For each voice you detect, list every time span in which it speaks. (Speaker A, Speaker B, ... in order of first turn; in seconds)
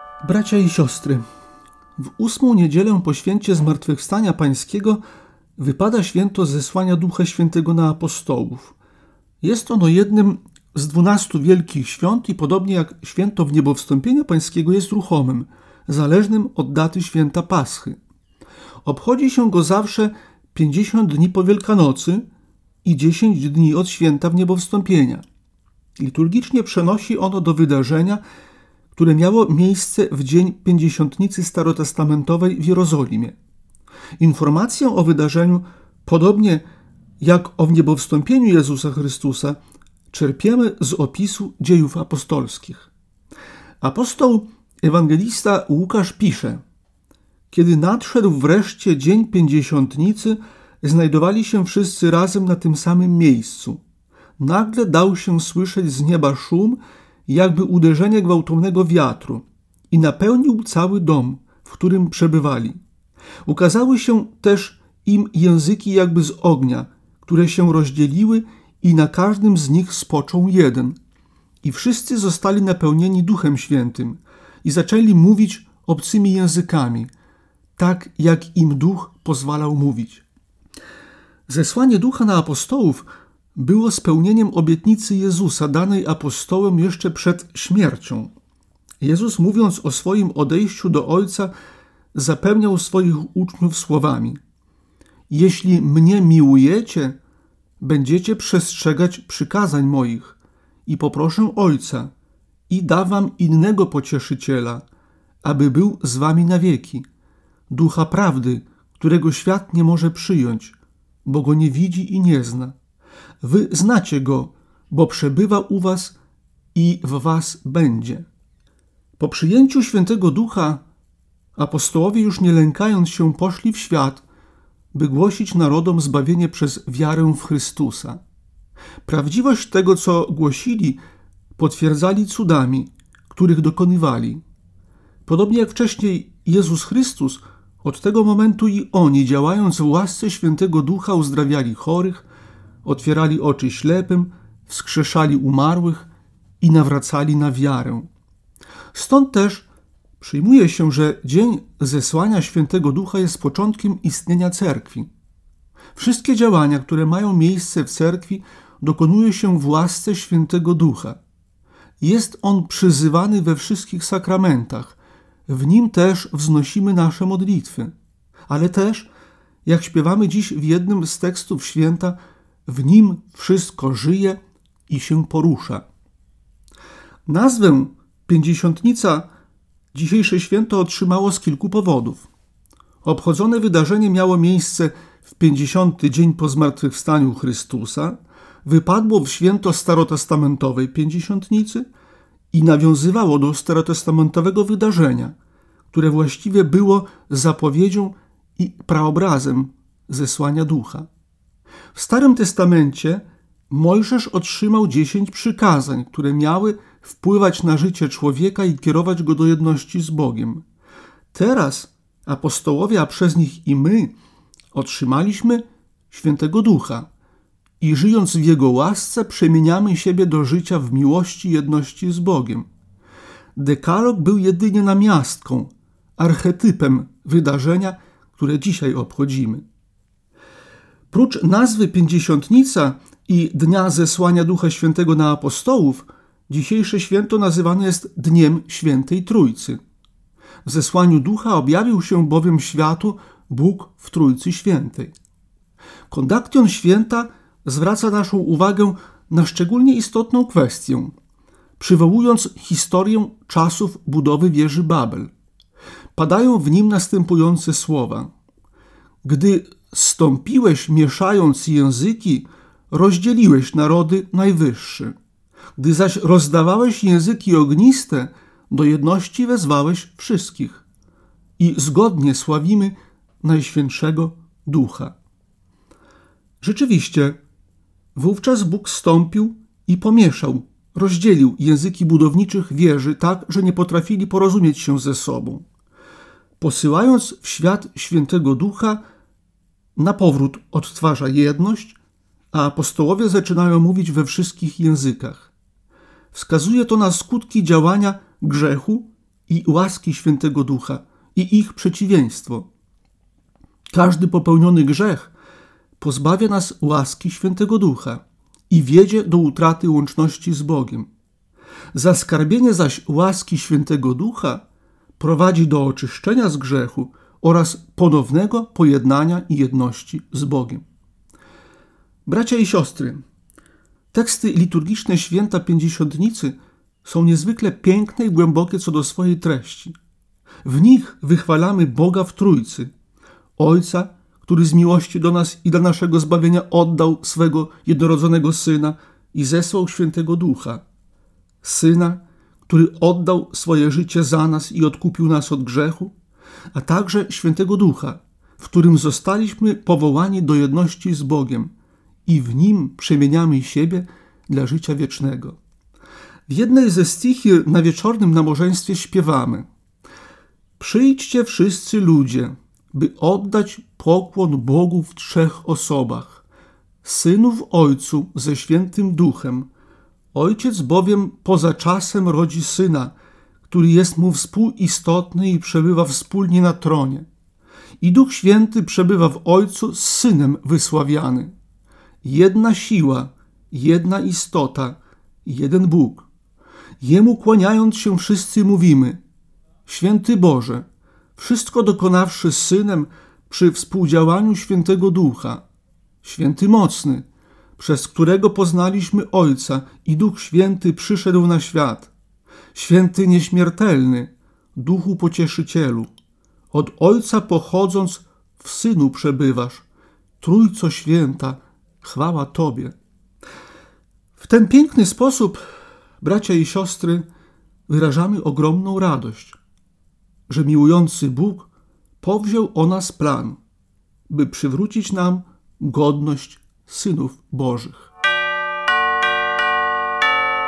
Speaker A: 0.2-1.2, 2.0-5.0, 5.6-8.7, 9.4-18.0, 18.8-22.2, 22.8-25.2, 26.0-28.2, 28.9-33.4, 34.2-36.6, 37.2-39.6, 40.1-42.9, 43.8-46.6, 47.5-53.8, 54.4-62.8, 63.4-71.0, 71.6-77.1, 77.8-80.2, 81.5-88.3, 89.0-91.5, 92.1-94.4, 95.3-97.2, 97.8-102.1, 102.7-104.8, 105.4-107.0, 107.7-112.7, 113.4-116.2, 116.7-118.3, 119.2-120.8, 121.5-124.2, 124.9-128.2, 129.0-131.0, 131.6-134.4, 135.2-142.2, 142.8-146.1, 146.6-148.1, 148.9-149.7, 150.2-155.1, 155.9-161.2, 162.0-167.9, 168.5-169.1, 169.6-175.8, 177.2-179.3, 179.9-182.3, 183.0-191.9, 192.5-195.3, 195.9-201.1, 201.9-210.6, 211.3-214.1, 214.7-217.1, 217.8-222.7, 223.6-229.6, 231.1-239.8, 240.6-245.1, 246.1-251.1, 251.8-255.3, 256.1-258.3, 259.2-265.1, 265.8-270.8, 271.6-275.1, 276.6-277.4, 278.1-285.6, 286.6-289.0, 289.9-292.0, 292.5-295.5, 296.3-302.7, 303.9-305.3, 306.0-311.1, 311.9-314.6, 315.2-320.8, 322.2-323.2, 324.1-329.9, 330.6-332.9, 333.6-340.8, 341.6-346.1, 346.7-351.7, 352.2-355.6, 356.5-359.7, 360.8-366.4, 367.0-369.7, 370.3-373.1, 373.7-377.2, 378.0-381.5, 382.2-386.3, 387.0-389.2, 389.9-395.6, 396.2-397.2, 397.8-402.1, 402.7-406.1, 406.7-409.8, 410.4-412.9, 414.4-415.6, 416.2-417.2, 417.9-419.6, 420.5-421.7, 422.2-423.6, 424.3-428.1